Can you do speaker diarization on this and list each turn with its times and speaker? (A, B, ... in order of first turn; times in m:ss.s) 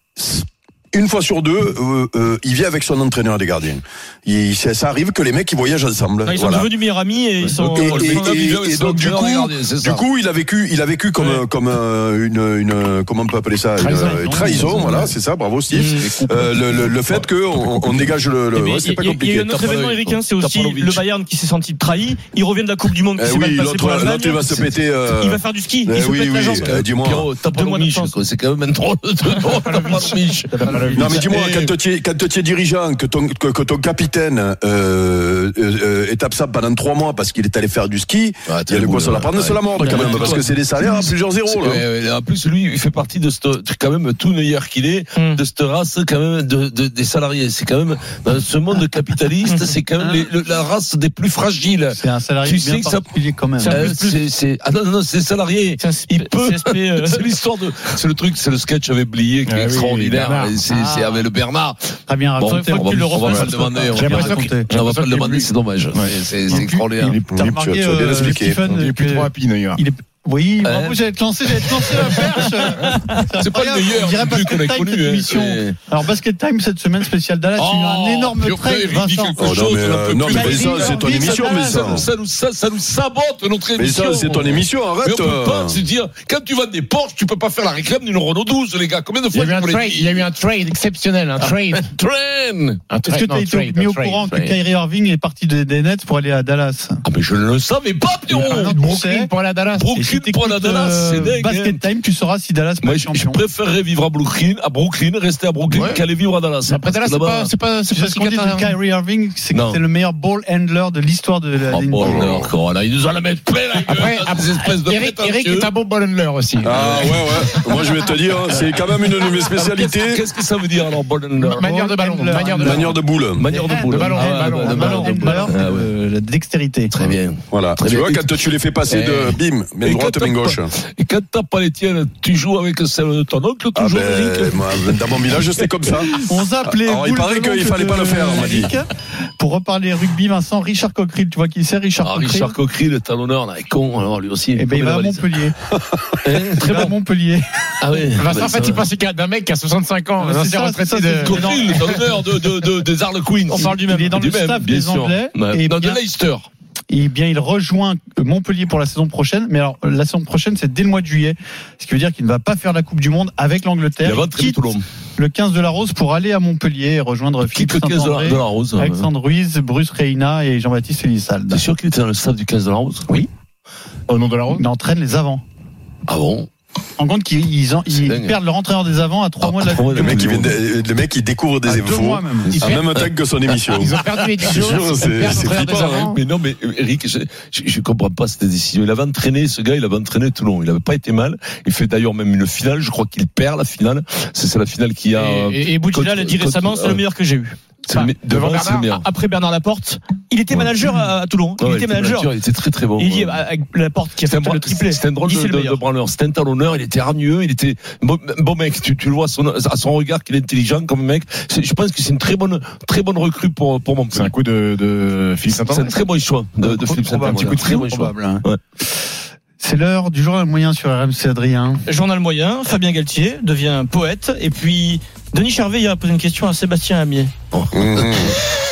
0:00.2-0:06.7 A
0:06.2-0:08.6 B
0:07.4-0:10.0 C
0:07.7-0:19.5 A
0:11.2-0:11.4 B
0:13.8-0:14.8 D
0:14.6-0:15.1 C
0:15.7-0:16.1 B
0:15.9-0:18.1 C
0:18.5-0:26.9 B
0:19.4-0:21.0 C
0:23.2-0:27.2 A
0:26.6-0:31.7 C
0:27.4-0:28.2 B
0:29.6-0:31.2 D
0:30.5-0:31.1 E
0:31.0-0:41.8 A
0:38.5-0:40.6 C
0:41.4-0:53.0 C
0:45.1-0:45.4 B
0:50.0-0:50.3 E
0:51.9-0:53.9 E
0:53.6-0:54.2 B
0:53.7-1:07.2 C
0:55.8-0:57.3 B
0:59.4-1:00.6 D
1:00.7-1:01.3 E
1:02.1-1:04.7 E
1:02.5-1:04.3 B
1:03.3-1:06.2 D
1:06.5-1:19.5 E
1:07.3-1:08.6 A
1:08.1-1:09.8 D
1:10.6-1:11.0 C
1:11.6-1:12.1 C
1:12.8-1:13.2 B
1:13.4-1:15.8 C
1:17.6-1:30.4 C
1:19.4-1:22.1 A
1:20.2-1:22.1 E
1:23.8-1:25.8 A
1:29.3-1:31.9 D
1:31.4-1:32.8 C
1:32.9-1:34.5 D
1:33.0-1:37.0 E
1:34.2-1:34.5 C
1:37.0-1:38.8 C
1:38.3-1:39.3 E
1:38.5-1:39.9 D
1:39.7-1:41.8 C
1:39.9-1:43.4 E
1:42.8-1:47.5 C
1:45.7-1:46.0 D
1:46.6-1:48.8 D
1:47.9-1:52.3 E
1:49.5-1:49.8 C
1:51.7-1:55.7 C
1:53.8-1:58.1 D
1:56.6-2:00.2 A
1:56.8-1:57.3 C
1:59.4-2:01.7 C
2:01.4-2:02.9 E
2:01.4-2:03.0 D
2:02.6-2:03.4 A
2:03.3-2:05.9 C
2:03.5-2:06.9 E
2:03.6-2:05.6 D
2:06.9-2:08.3 C
2:07.5-2:10.7 A
2:08.8-2:14.9 C
2:13.7-2:18.7 A
2:16.1-2:18.9 E
2:19.4-2:22.5 E
2:22.0-2:25.2 C
2:24.6-2:25.5 E
2:26.2-2:26.9 C
2:26.6-2:27.4 E
2:27.8-2:28.8 C
2:28.0-2:32.1 D
2:30.2-2:32.1 E
2:31.2-2:36.5 C
2:33.5-2:34.2 B
2:33.5-2:36.0 E
2:36.9-2:51.6 E
2:44.0-2:44.8 C
2:47.5-2:49.1 C
2:51.5-2:53.2 C
2:54.1-2:54.6 D
2:54.5-2:55.4 E
2:56.1-2:56.5 C
2:57.0-3:00.3 E
2:57.9-2:58.3 C
2:59.4-3:00.6 C
3:00.0-3:06.1 A
3:01.6-3:02.6 E
3:02.5-3:03.1 C
3:02.5-3:02.8 D
3:03.7-3:06.2 D
3:05.6-3:17.0 C
3:15.1-3:15.5 D
3:15.4-3:22.3 B
3:17.9-3:19.0 C
3:18.3-3:18.9 D
3:20.5-3:23.4 C
3:23.0-3:25.8 B
3:24.2-3:34.3 C
3:34.1-3:36.0 D
3:35.5-3:38.6 C
3:36.6-3:38.5 E
3:37.4-3:37.7 D
3:39.6-3:41.8 E
3:41.9-3:47.3 B
3:47.5-3:48.3 C
3:47.7-3:48.4 A